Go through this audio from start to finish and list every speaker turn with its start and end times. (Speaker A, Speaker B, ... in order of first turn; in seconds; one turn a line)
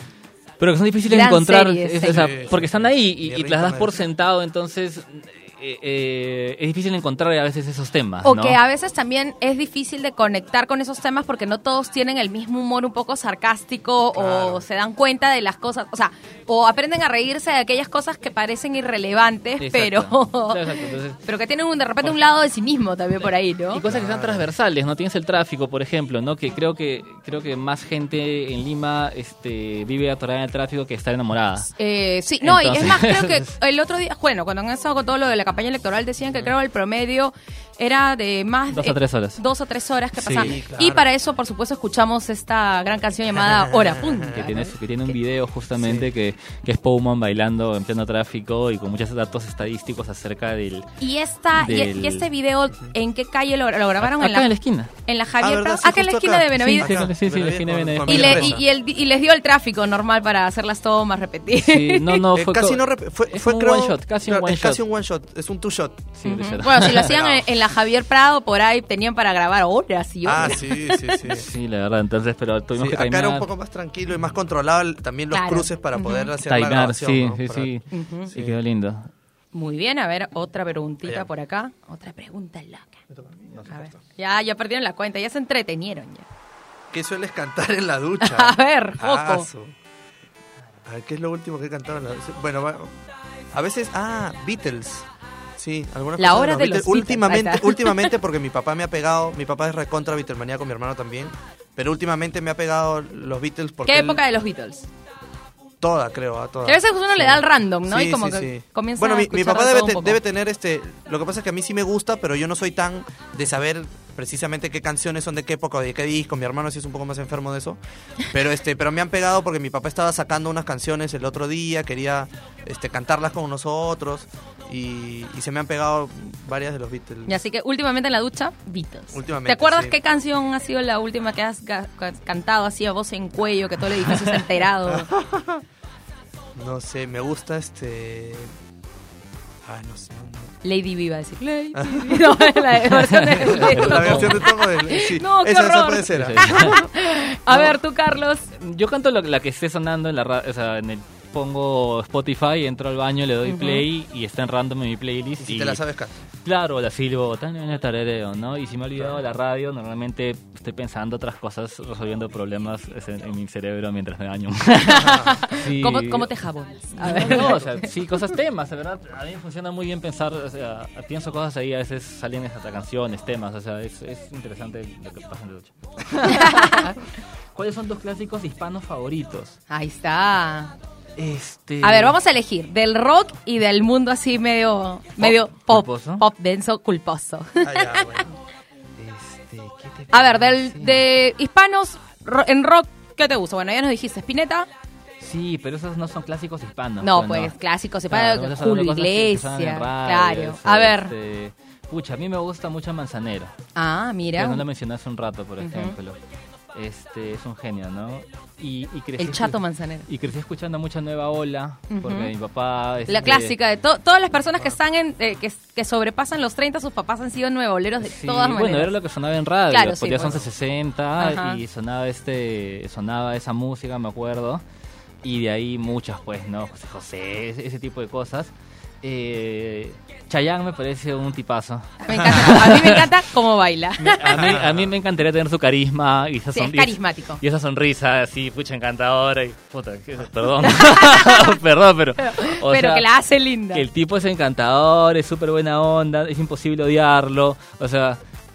Speaker A: 0.6-8.6
Speaker B: 1.1-2.3
Speaker C: 2.1-4.0
Speaker B: 8.2-23.8
Speaker C: 14.2-14.7
Speaker A: 19.6-21.2
Speaker A: 23.7-31.7
Speaker C: 23.9-24.5
Speaker B: 31.8-44.7
Speaker A: 32.4-33.5
Speaker A: 38.7-39.4
Speaker A: 40.2-40.5
Speaker C: 40.3-41.1
Speaker C: 43.6-44.3
Speaker A: 44.3-50.9
Speaker C: 45.8-46.1
Speaker B: 51.0-54.5
Speaker A: 51.6-52.3
Speaker A: 54.0-54.9
Speaker B: 55.0-57.0
Speaker C: 55.4-58.6
Speaker A: 56.5-58.6
Speaker B: 58.1-62.2
Speaker A: 61.5-64.8
Speaker C: 62.3-66.1
Speaker A: 66.2-67.2
Speaker B: 66.2-71.4
Speaker C: 66.9-67.4
Speaker C: 70.2-71.5
Speaker A: 71.2-73.5
Speaker C: 72.8-77.7
Speaker B: 75.3-76.3
Speaker A: 76.4-79.1
Speaker B: 77.9-78.3
Speaker C: 78.3-78.6
Speaker B: 79.5-83.0
Speaker C: 83.1-84.0
Speaker B: 83.7-86.2
Speaker C: 86.9-89.8
Speaker B: 88.2-89.5
Speaker C: 90.9-93.0
Speaker C: 93.5-104.2
Speaker B: 96.2-98.1
Speaker B: 103.9-104.9
Speaker C: 105.8-127.4
Speaker B: 106.7-110.2
Speaker B: 127.3-135.1
Speaker C: 129.1-130.0
Speaker C: 134.9-135.6
Speaker C: 136.6-138.5
Speaker C: 139.7-140.6
Speaker B: 140.6-148.5
Speaker C: 141.7-142.3
Speaker A: 142.8-144.5
Speaker C: 143.4-146.8
Speaker A: 146.1-146.8
Speaker A: 148.5-155.8
Speaker B: 153.4-153.8
Speaker C: 155.4-156.2
Speaker A: 156.4-166.3
Speaker B: 164.9-167.8
Speaker C: 165.0-165.3
Speaker A: 167.0-177.0
Speaker B: 176.2-176.9
Speaker A: 177.6-179.6
Speaker B: 179.7-180.7
Speaker A: 181.2-182.2
Speaker B: 181.8-188.2
Speaker A: 185.2-186.2
Speaker C: 187.6-188.4
Speaker A: 189.0-191.0
Speaker B: 190.1-194.7
Speaker A: 195.2-197.5
Speaker B: 197.0-201.1
Speaker A: 198.1-203.5
Speaker B: 203.8-204.6
Speaker A: 204.4-206.2
Speaker B: 205.6-206.0
Speaker A: 206.7-213.6
Speaker B: 209.2-210.1
Speaker B: 211.9-212.3
Speaker B: 213.1-218.9
Speaker A: 218.0-224.6
Speaker B: 219.7-220.4
Speaker B: 221.2-221.6
Speaker A: 225.2-228.5
Speaker A: 229.0-233.2
Speaker B: 232.0-234.6
Speaker A: 234.0-243.1
Speaker C: 234.3-234.9
Speaker B: 236.5-237.4
Speaker B: 240.7-241.6
Speaker B: 242.2-243.9
Speaker A: 243.7-248.2